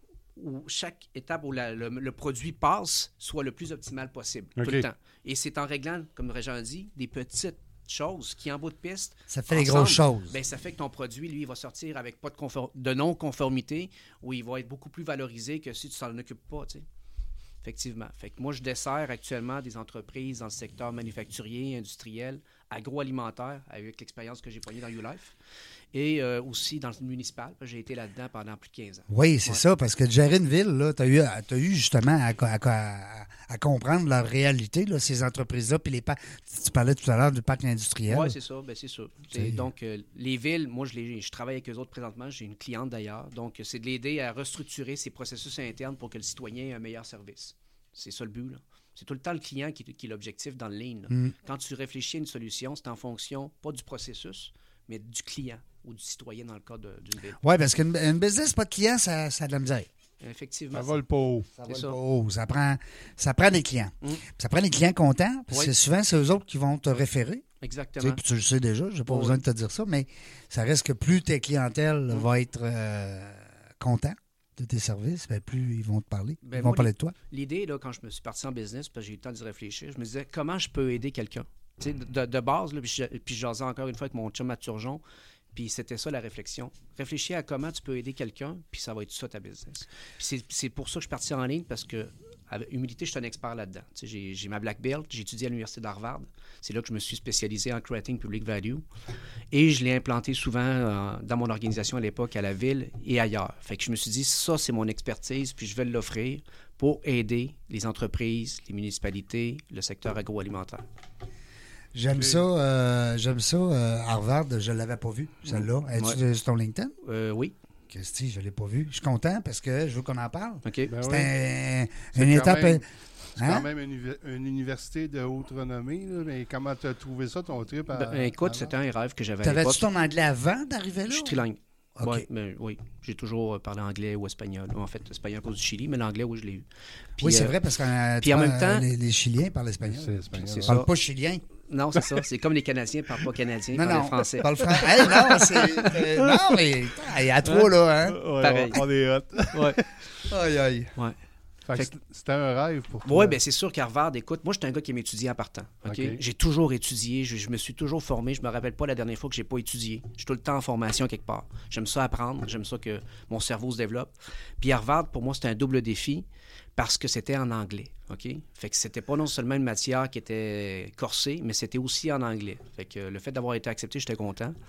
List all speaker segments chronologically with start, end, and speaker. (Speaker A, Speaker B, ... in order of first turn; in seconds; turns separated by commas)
Speaker A: 0.3-16.8, Speaker B: 4.6-4.8, Speaker C: 9.3-10.3, Speaker A: 17.6-25.3, Speaker A: 25.9-29.6, Speaker C: 29.1-38.4, Speaker A: 38.1-57.4, Speaker C: 39.3-39.6, Speaker C: 57.4-59.9, Speaker A: 60.2-60.9, Speaker B: 60.7-61.5, Speaker C: 61.6-67.5, Speaker A: 61.7-62.0, Speaker A: 67.6-68.2, Speaker C: 68.0-77.1, Speaker A: 69.1-69.4, Speaker A: 76.4-85.0, Speaker A: 85.5-98.8, Speaker A: 99.5-110.8, Speaker C: 111.9-117.0, Speaker B: 112.2-112.4, Speaker A: 115.5-116.2, Speaker A: 117.0-117.5, Speaker C: 117.9-122.8, Speaker A: 120.6-120.9, Speaker B: 120.9-121.3, Speaker B: 122.1-122.8, Speaker B: 123.3-128.7, Speaker C: 123.4-123.7, Speaker A: 127.9-129.8, Speaker C: 129.4-131.4, Speaker A: 131.1-136.6, Speaker C: 132.0-132.2, Speaker A: 137.2-137.5, Speaker C: 137.2-141.4, Speaker A: 138.2-138.8, Speaker B: 139.8-140.8, Speaker A: 140.4-140.9, Speaker A: 141.7-146.0, Speaker C: 143.7-148.2, Speaker A: 147.4-147.7, Speaker B: 148.1-149.9, Speaker A: 148.4-148.8, Speaker A: 149.5-149.8, Speaker C: 150.3-150.9, Speaker B: 151.7-153.4, Speaker A: 153.0-166.2, Speaker B: 155.8-156.2, Speaker A: 166.8-174.5